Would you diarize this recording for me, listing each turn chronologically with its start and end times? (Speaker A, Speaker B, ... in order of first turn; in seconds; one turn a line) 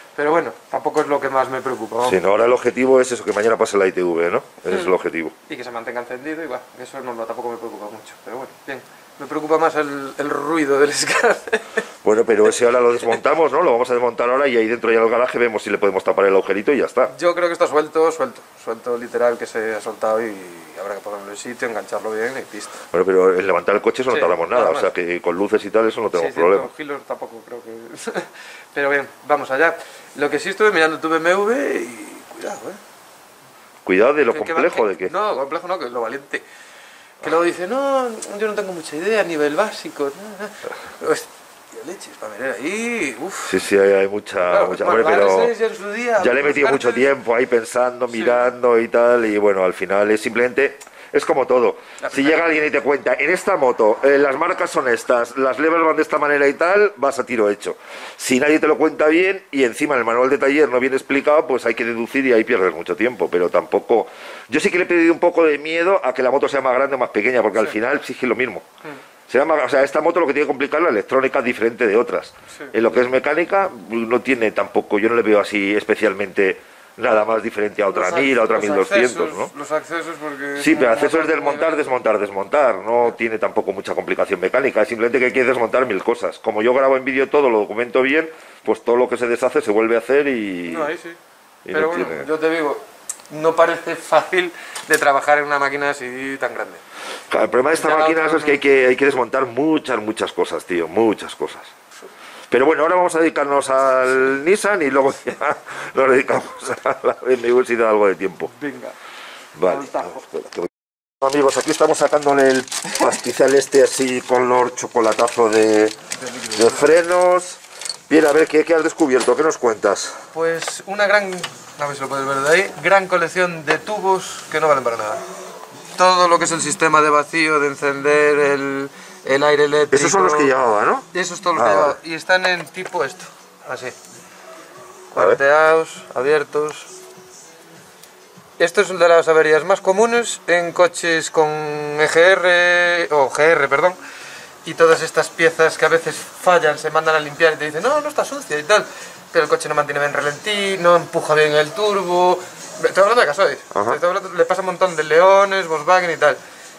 Speaker A: 0.2-2.2
Speaker B: 2.0-5.3
Speaker A: 5.5-11.8
Speaker B: 12.0-17.1
Speaker A: 17.1-22.8
Speaker B: 22.9-26.7
Speaker A: 24.1-24.9
Speaker A: 26.1-32.8
Speaker B: 33.9-35.1
Speaker A: 34.3-36.4
Speaker A: 37.2-43.6
Speaker B: 43.5-45.5
Speaker A: 44.5-47.1
Speaker B: 46.2-68.7
Speaker A: 48.1-48.4
Speaker A: 52.0-52.5
Speaker B: 69.3-79.5
Speaker A: 77.9-81.9
Speaker B: 80.6-90.9
Speaker A: 90.7-91.2
Speaker B: 91.7-92.3
Speaker A: 91.7-96.8
Speaker B: 97.3-101.7
Speaker A: 97.7-98.6
Speaker B: 102.5-108.5
Speaker A: 108.5-109.0
Speaker B: 109.6-116.0
Speaker A: 109.7-110.2
Speaker A: 116.1-116.9
Speaker B: 116.5-120.2
Speaker A: 120.3-125.2
Speaker A: 126.0-130.5
Speaker B: 129.9-132.0
Speaker A: 131.1-134.0
Speaker A: 135.1-136.9
Speaker A: 138.6-144.0
Speaker A: 144.7-156.4
Speaker B: 153.7-154.0